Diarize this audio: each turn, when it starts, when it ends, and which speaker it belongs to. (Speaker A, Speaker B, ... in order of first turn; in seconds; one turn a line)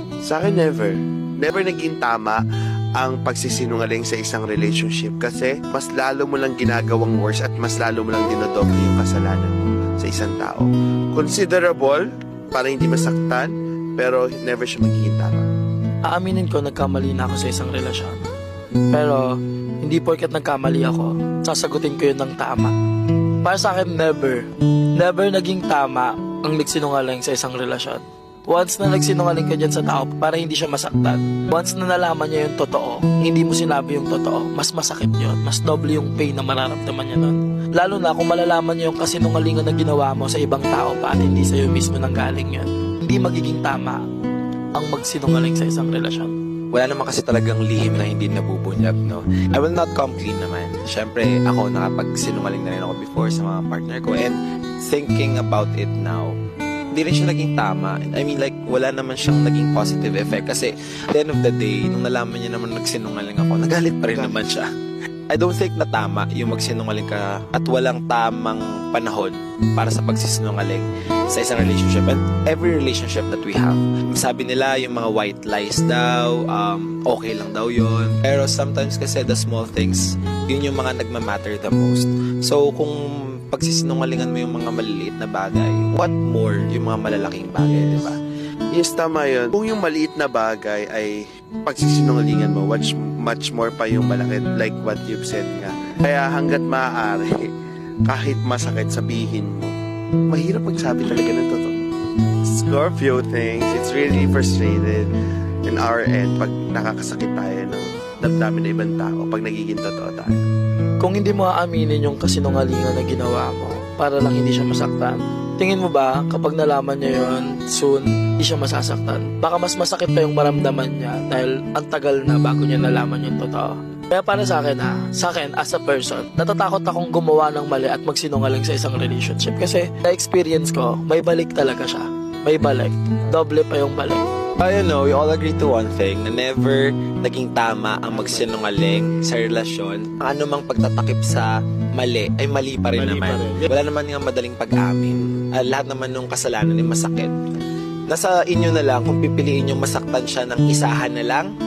Speaker A: 0.2-2.4
Speaker A: 3.0-15.5
Speaker B: 16.1-18.2
Speaker B: 18.9-22.7
Speaker B: 23.4-24.4
Speaker B: 25.0-44.0
Speaker B: 44.7-46.3
Speaker C: 46.7-56.3
Speaker C: 56.9-64.7
Speaker A: 64.1-64.4
Speaker C: 65.3-82.9
Speaker C: 83.5-88.2
Speaker A: 88.7-97.5
Speaker A: 98.0-99.7
Speaker A: 100.3-101.7
Speaker A: 102.5-105.1
Speaker A: 105.7-110.4
Speaker B: 111.0-134.2
Speaker C: 134.6-147.3
Speaker A: 138.1-138.8
Speaker C: 148.1-151.5